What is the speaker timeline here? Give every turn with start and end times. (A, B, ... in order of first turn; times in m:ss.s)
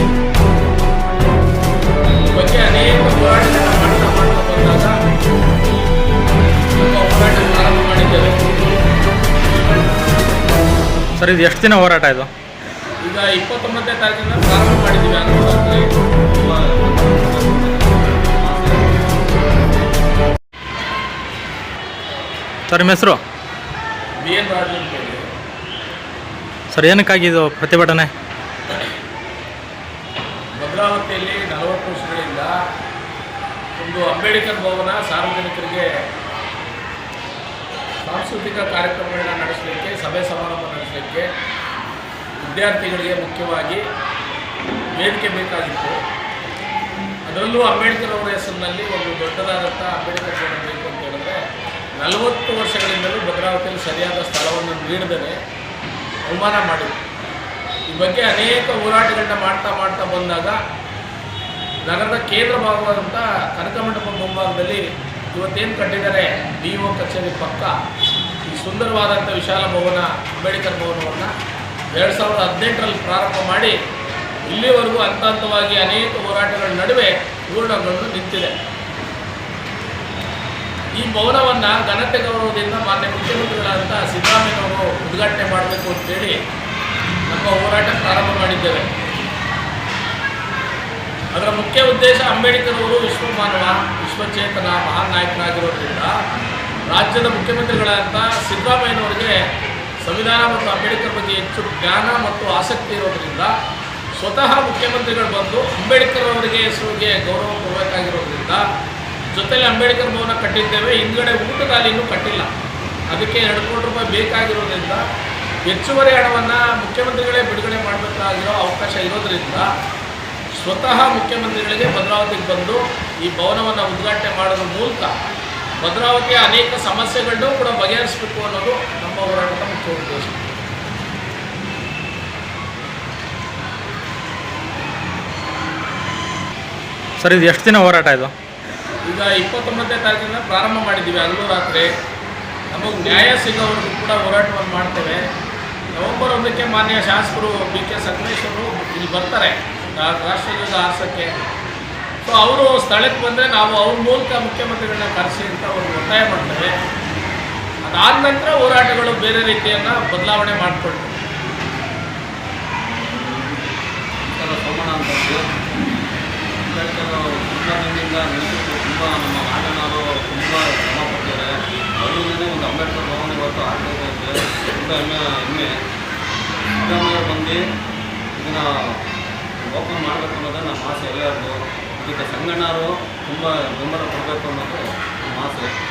0:02.3-0:05.0 A
0:06.8-0:08.6 A
0:09.5-0:09.9 A
0:11.2-0:12.3 B
0:13.0-0:15.8 A
0:16.3-0:19.0 C
0:22.7-0:23.2 B
0:24.2-0:25.2 A
0:26.7-0:28.1 B
0:30.6-0:32.5 A
0:33.8-0:35.9 A
0:38.0-0:41.3 A
0:42.4-0:43.8 A
0:44.9-0:46.0 A
0:47.3-0:51.4 A
0:52.0-0:55.3 A
0:56.3-0:57.0 A
0:57.9-1:00.6 A
1:01.8-1:07.7 A
1:08.4-1:11.3 A
1:11.9-1:13.7 A
1:14.5-1:18.5 A
1:21.0-1:26.4 A
1:27.3-1:28.9 A
1:31.3-1:36.1 A
1:36.9-1:39.3 A
1:40.0-1:43.5 A
1:44.2-1:48.6 A
1:49.3-1:52.5 A
1:53.1-1:55.0 A
1:55.6-1:59.7 A
2:00.5-2:05.1 A
2:05.8-2:10.6 A
2:17.2-2:18.3 B
2:19.0-2:21.9 A
2:22.7-2:25.2 A
2:25.9-2:31.3 A
2:32.2-2:36.7 A
2:37.8-2:41.2 A
2:42.9-2:45.5 C
2:46.6-2:55.7 C
2:56.8-2:57.6 C
2:58.4-2:59.0 C
2:59.6-3:05.7 C